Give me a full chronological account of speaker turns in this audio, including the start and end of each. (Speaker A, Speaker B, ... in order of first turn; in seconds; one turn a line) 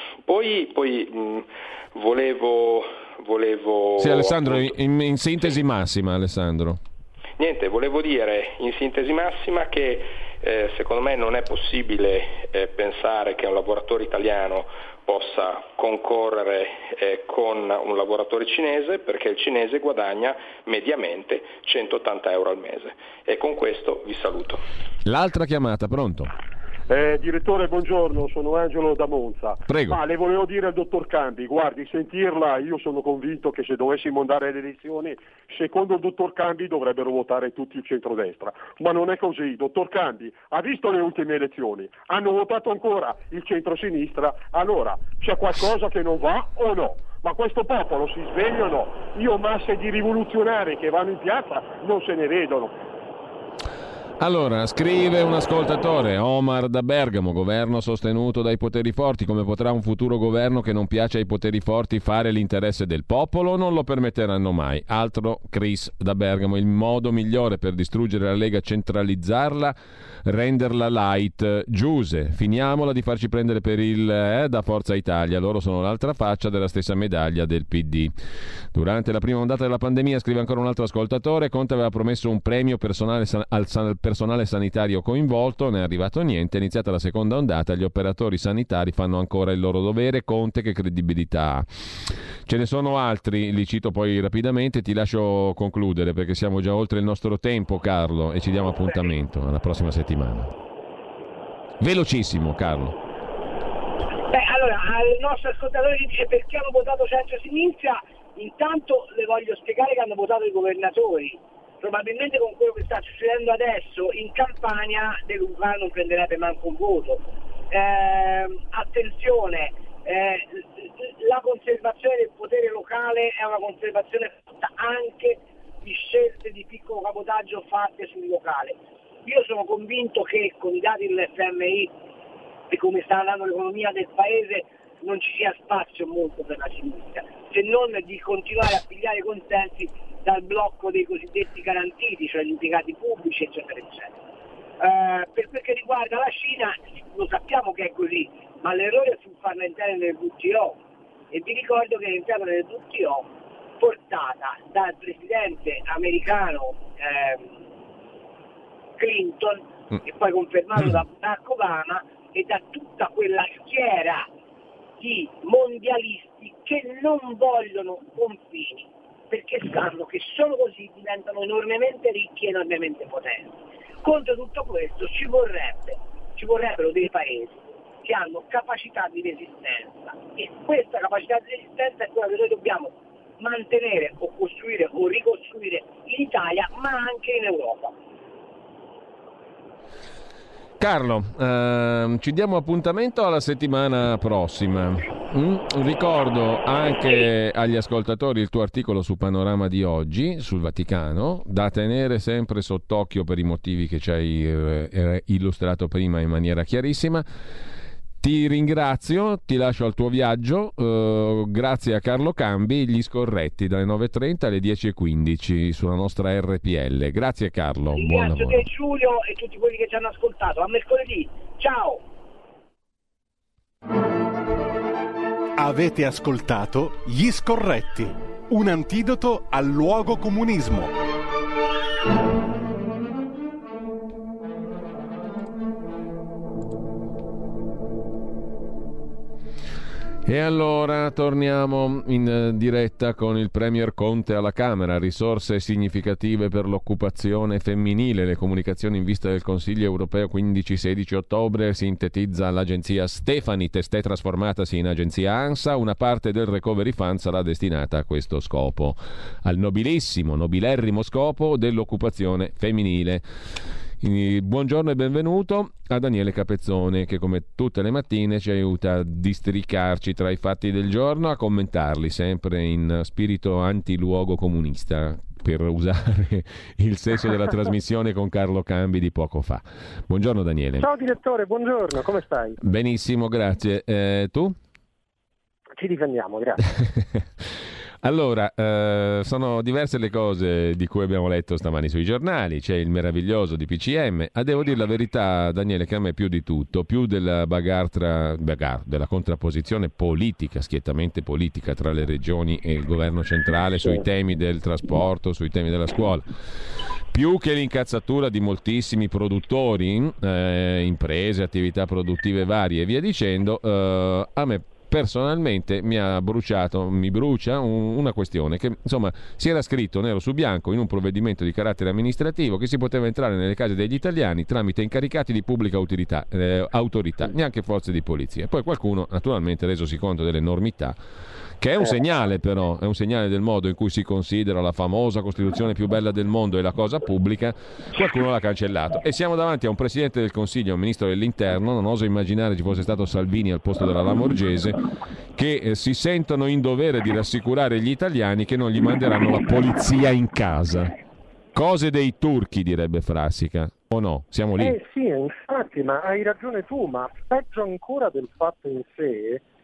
Speaker A: 0.2-4.7
Speaker B: 4.0-6.8
Speaker A: 7.4-24.6
Speaker B: 25.0-26.3
Speaker C: 26.9-52.7
Speaker B: 29.7-30.0
Speaker B: 54.2-78.1
Speaker B: 78.7-100.5
Speaker B: 101.8-103.0
Speaker D: 104.3-131.9
Speaker D: 132.7-144.1
Speaker D: 144.8-150.8
Speaker D: 151.3-153.3
Speaker D: 153.8-157.6
Speaker D: 159.0-164.3
Speaker D: 165.0-187.9
Speaker B: 190.8-207.3
Speaker B: 208.2-218.6
Speaker D: 217.9-222.0
Speaker E: 225.6-230.9
Speaker B: 240.2-263.2
Speaker B: 264.0-280.9
Speaker F: 280.8-282.6
Speaker B: 282.6-284.6
Speaker F: 285.8-286.6
Speaker B: 286.9-287.4
Speaker B: 288.0-306.3
Speaker B: 307.1-331.0
Speaker B: 331.6-344.8
Speaker B: 345.3-350.9
Speaker B: 351.5-354.8
Speaker F: 354.6-359.4